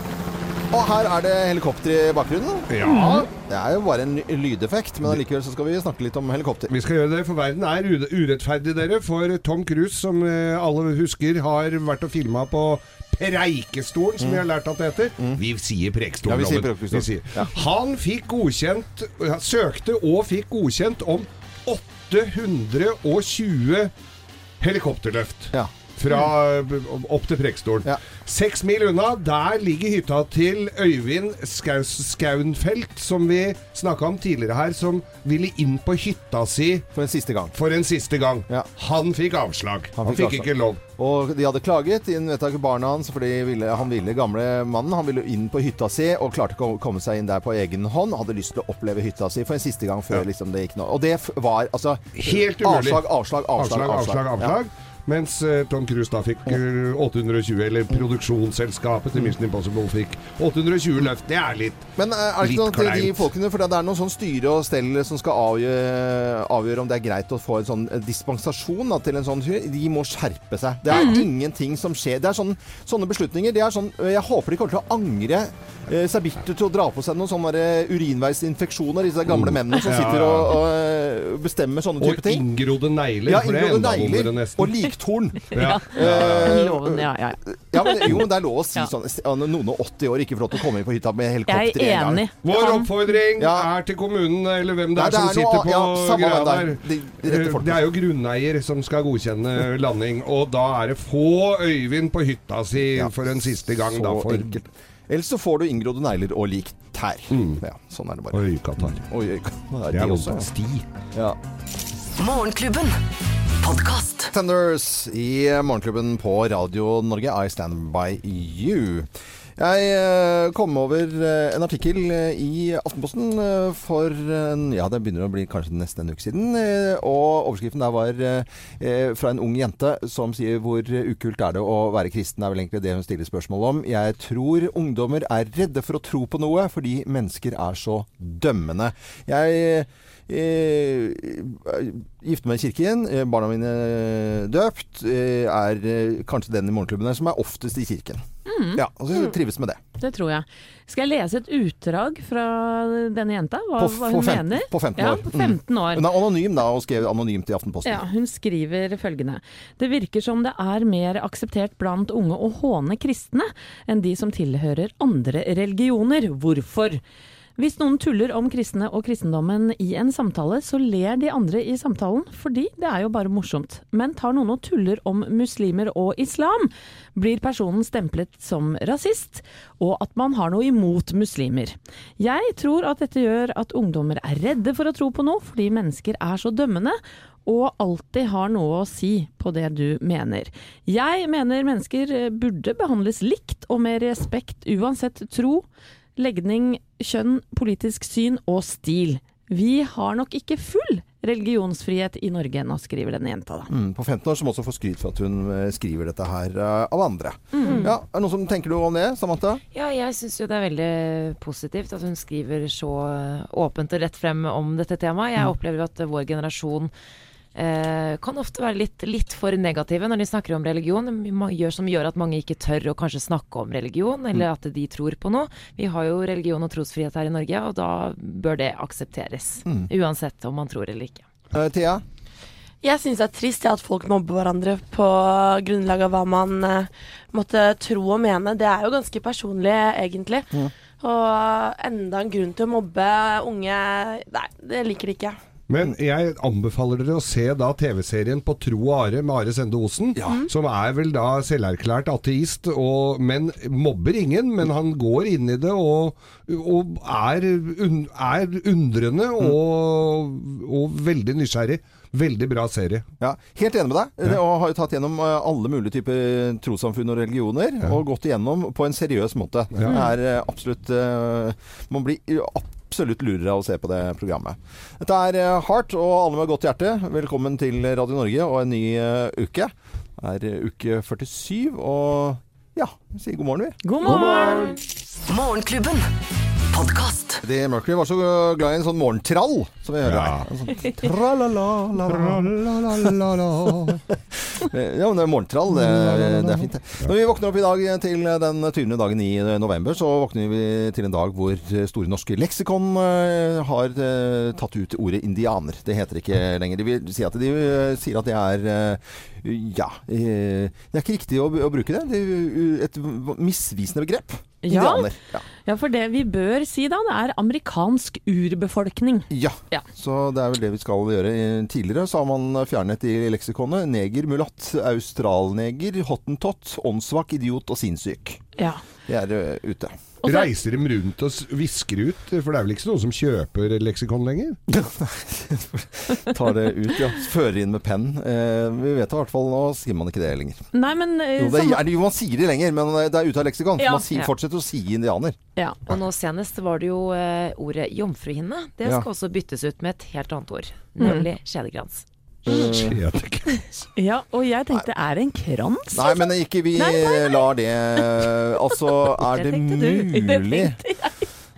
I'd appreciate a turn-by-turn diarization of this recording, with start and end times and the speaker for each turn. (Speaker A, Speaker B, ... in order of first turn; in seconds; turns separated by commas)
Speaker A: 0.7-2.8, Speaker B: 2.7-3.3, Speaker C: 2.8-3.3, Speaker A: 3.4-6.7, Speaker B: 6.7-23.9, Speaker A: 14.2-14.4, Speaker A: 16.2-17.5, Speaker B: 24.6-36.9, Speaker A: 36.9-37.5, Speaker B: 37.5-40.8, Speaker A: 40.0-54.6, Speaker B: 52.2-53.0, Speaker B: 53.6-61.9, Speaker A: 62.0-82.5, Speaker B: 62.4-63.2, Speaker C: 70.9-71.2, Speaker B: 79.3-80.6, Speaker B: 82.0-84.7, Speaker A: 83.2-92.2, Speaker B: 85.5-86.7, Speaker C: 85.5-88.1, Speaker C: 91.5-92.9, Speaker B: 92.4-104.5, Speaker A: 93.4-93.7, Speaker A: 94.9-97.9, Speaker A: 102.8-110.5, Speaker B: 107.3-107.6, Speaker B: 108.3-109.0, Speaker B: 109.9-110.9, Speaker A: 111.1-111.4, Speaker D: 112.2-113.0, Speaker D: 113.6-114.3, Speaker A: 114.3-149.8, Speaker C: 148.4-148.8, Speaker C: 150.0-156.1, Speaker A: 153.8-158.0, Speaker C: 157.8-167.0, Speaker C: 167.6-195.6, Speaker C: 196.2-203.7, Speaker A: 203.7-209.6, Speaker C: 207.6-207.9, Speaker E: 207.6-207.9, Speaker F: 209.7-216.9, Speaker F: 217.5-231.2, Speaker A: 231.5-232.0, Speaker E: 232.8-240.5, Speaker E: 241.0-245.4, Speaker B: 245.7-263.1, Speaker A: 263.2-283.8, Speaker C: 283.8-284.8, Speaker B: 284.0-284.7, Speaker D: 285.3-286.1, Speaker D: 286.7-287.4, Speaker A: 287.4-293.1, Speaker B: 290.0-290.5, Speaker B: 292.0-294.1, Speaker A: 294.3-315.4, Speaker B: 295.7-297.1, Speaker C: 314.6-315.1, Speaker C: 315.6-319.9, Speaker A: 319.3-328.4, Speaker C: 328.6-328.8, Speaker A: 329.1-330.2, Speaker B: 330.2-334.6, Speaker A: 334.7-340.7, Speaker C: 340.7-341.8, Speaker A: 341.4-345.4, Speaker C: 343.8-344.3, Speaker F: 345.9-352.0, Speaker C: 351.0-351.3, Speaker A: 352.4-353.0, Speaker B: 352.5-353.8, Speaker C: 353.9-357.5, Speaker A: 355.9-360.8, Speaker C: 358.8-361.1